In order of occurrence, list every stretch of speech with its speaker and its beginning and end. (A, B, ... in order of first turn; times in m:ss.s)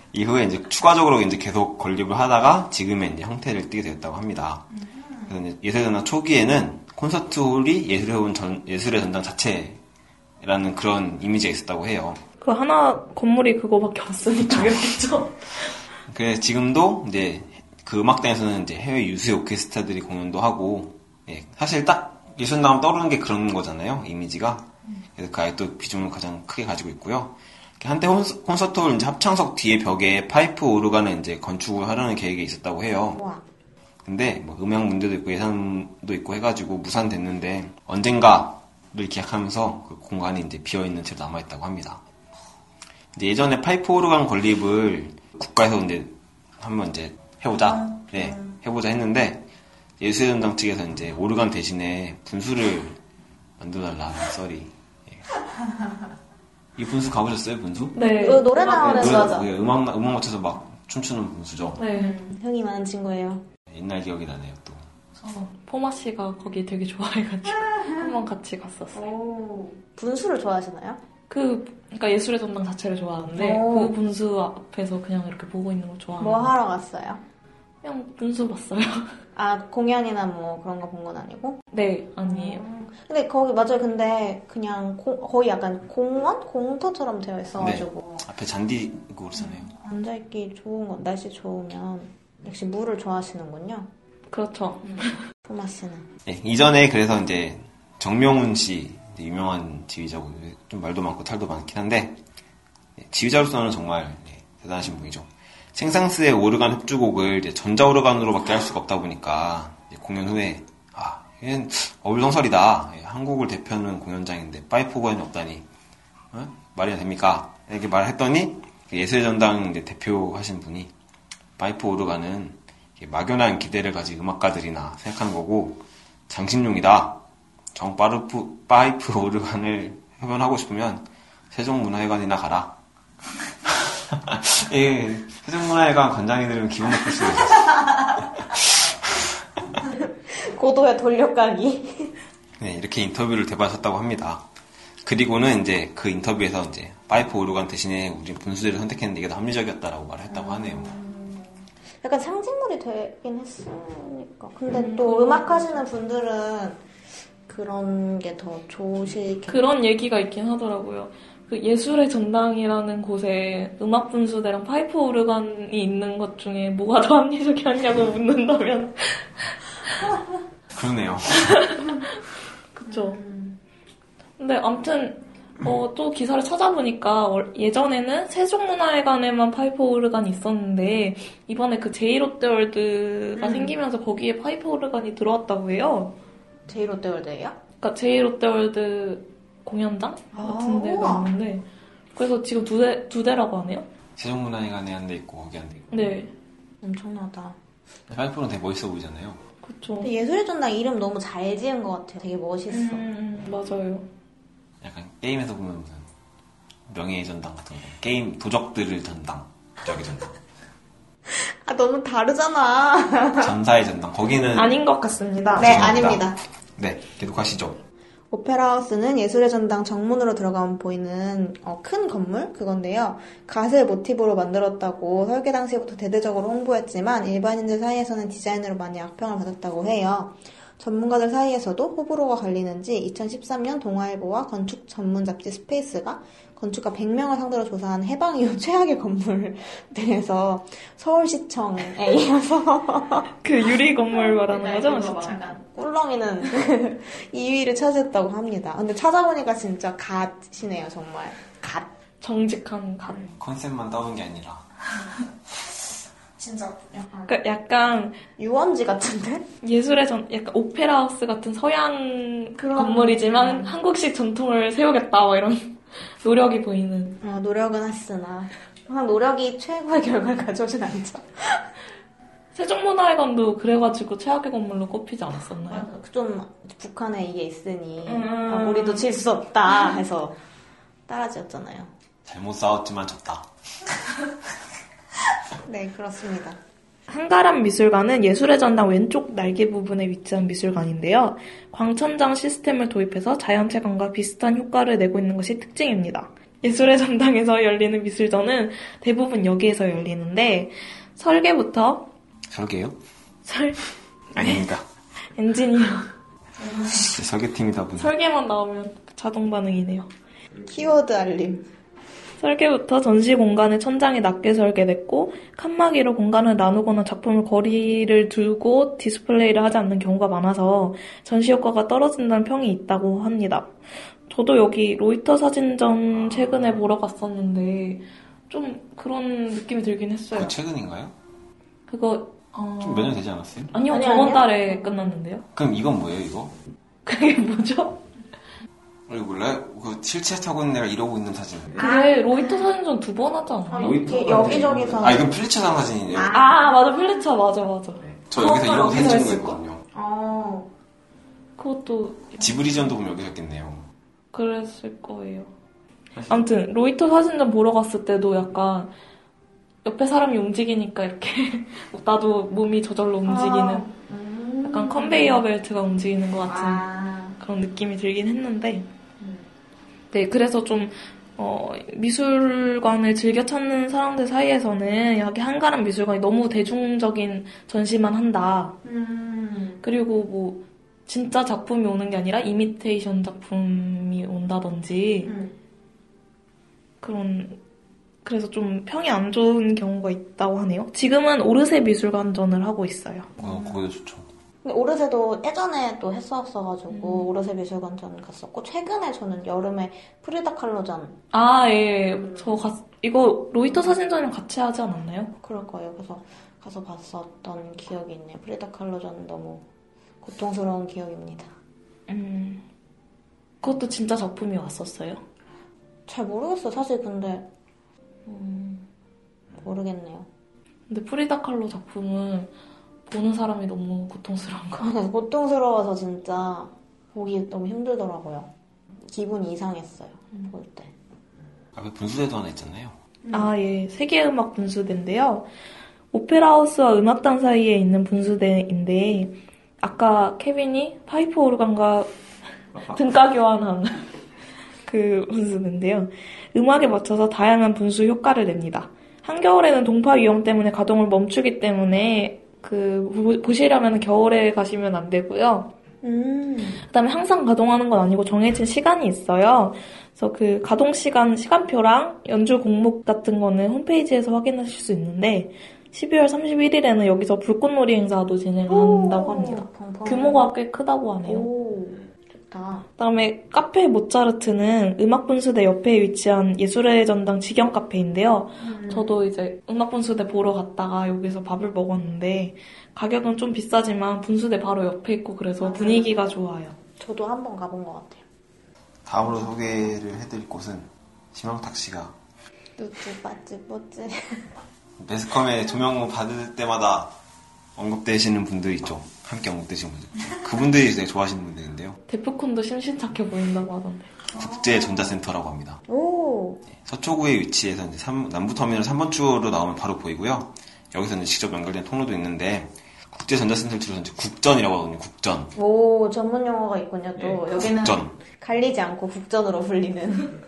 0:00.1-0:04.7 A
0:04.9-0:05.3 B
0:05.3-0:09.8 A
0:10.4-0:12.2 A
0:12.4-0:15.7 C
0:16.1-0:33.2 A
0:33.1-0:33.4 B
0:34.0-0:42.0 A
0:43.1-0:49.4 A
0:47.8-0:48.5 B
0:50.0-0:53.0 A
0:53.6-0:55.3 A
0:56.8-0:58.0 A
0:57.9-0:59.3 C
0:58.0-0:59.5 B
0:58.6-1:01.8 A
1:01.8-1:02.2 C
1:01.9-1:03.4 B
1:03.7-1:04.8 A
1:05.2-1:09.1 C
1:07.7-1:08.0 B
1:08.9-1:11.0 B
1:11.3-1:16.5 C
1:13.3-1:14.0 B
1:16.2-1:17.2 B
1:17.8-1:19.1 C
1:19.3-1:21.6 B
1:21.7-1:22.6 C
1:22.2-1:28.2 B
1:27.6-1:29.7 A
1:29.4-1:33.9 B
1:34.3-1:35.2 C
1:34.9-1:36.1 B
1:36.2-1:42.2 A
1:43.0-1:55.6 A
1:56.3-2:00.9 A
2:01.6-2:07.2 A
2:07.7-2:12.8 A
2:13.6-2:19.3 A
2:19.9-2:22.2 B
2:22.6-2:24.4 A
2:25.0-2:31.0 A
2:30.3-2:36.8 B
2:34.7-2:35.8 C
2:37.5-2:39.6 B
2:39.5-2:50.0 C
2:50.7-2:51.7 A
2:51.3-2:52.2 C
2:52.8-2:53.2 C
2:52.9-2:53.6 B
2:54.4-3:06.1 C
3:03.4-3:03.7 B
3:06.7-3:07.6 B
3:07.8-3:13.9 C
3:10.3-3:11.3 B
3:14.2-3:16.1 A
3:15.9-3:16.3 C
3:16.8-3:17.6 B
3:18.1-3:19.4 A
3:19.6-3:20.1 C
3:20.0-3:23.0 B
3:22.7-3:24.1 C
3:24.8-3:26.1 A
3:26.9-3:30.4 A
3:31.3-3:33.5 B
3:33.4-3:34.8 A
3:34.5-3:35.9 C
3:35.5-3:36.4 B
3:35.6-3:36.2 A
3:36.8-3:37.8 A
3:38.3-4:03.3 B
4:03.4-4:05.4 C
4:04.1-4:11.9 B
4:12.2-4:13.3 C
4:13.1-4:13.3 B
4:13.4-4:14.7 A
4:16.4-4:17.4 B
4:17.3-4:18.2 C
4:18.4-4:19.5 B
4:19.6-4:27.2 C
4:22.6-4:23.7 B
4:27.2-4:31.6 B
4:32.5-4:35.9 C
4:35.7-4:40.4 B
4:38.0-4:39.1 C
4:41.1-4:41.9 B
4:42.2-4:43.5 A
4:45.6-4:46.6 B
4:47.1-5:02.1 C
5:02.5-5:03.0 A
5:03.4-5:03.8 C
5:04.3-5:04.6 C
5:04.4-5:04.8 A
5:05.4-5:06.1 C
5:06.6-5:07.0 B
5:06.9-5:08.1 A
5:08.0-5:10.1 C
5:10.6-5:11.7 B
5:12.4-5:23.7 C
5:24.3-5:30.5 C
5:30.3-5:31.1 A
5:31.9-5:33.2 C
5:32.8-5:33.7 A
5:33.7-5:35.4 C
5:33.9-5:35.2 B
5:35.5-5:36.5 A
5:37.0-5:38.0 C
5:39.1-5:41.8 A
5:41.7-5:42.7 B
5:41.8-5:44.1 C
5:43.7-5:45.3 B
5:43.8-5:46.3 A
5:46.1-5:47.2 B
5:46.3-5:49.6 C
5:48.2-5:49.8 A
5:49.9-5:50.7 B
5:51.6-5:52.6 C
5:52.4-5:53.9 A
5:54.3-5:55.5 C
5:56.1-5:56.4 A
5:56.3-5:58.9 C
5:59.8-6:03.8 C
6:03.2-6:05.4 B
6:04.6-6:06.8 C
6:06.4-6:07.4 B
6:07.4-6:08.9 C
6:09.2-6:09.5 B
6:10.1-6:18.8 C
6:18.8-6:19.8 B
6:19.8-6:25.3 C
6:25.2-6:25.6 B
6:27.0-6:27.6 C
6:28.2-6:33.3 C
6:33.4-6:33.8 B
6:33.4-6:34.3 A
6:34.6-6:41.2 B
6:36.9-6:37.3 C
6:41.3-6:45.3 C
6:42.2-6:42.6 B
6:45.4-6:49.6 B
6:50.2-6:51.5 B
6:52.1-6:52.6 C
6:53.6-6:55.2 C
6:56.1-6:57.5 B
6:58.2-6:58.9 C
6:59.6-7:00.3 B
7:00.9-7:02.5 C
7:03.1-7:04.9 C
7:04.8-7:08.5 B
7:09.0-7:10.9 B
7:11.8-7:13.0 A
7:13.2-7:13.5 B
7:13.3-7:15.5 C
7:16.1-7:22.1 C
7:22.8-7:24.1 C
7:24.8-7:35.7 C
7:36.0-7:36.8 B
7:36.9-7:51.5 C
7:48.7-7:50.5 B
7:51.2-7:52.8 B
7:53.0-8:06.8 C
7:58.6-7:59.1 B
8:05.6-8:06.4 B
8:07.0-8:08.2 B
8:09.0-8:12.1 A
8:12.8-8:14.5 B
8:15.0-8:17.1 A
8:17.8-8:22.0 A
8:22.1-8:24.1 C
8:24.3-8:25.2 B
8:24.3-8:25.8 A
8:25.9-8:26.6 B
8:26.7-8:35.5 A
8:35.5-8:40.4 B
8:37.3-8:38.1 A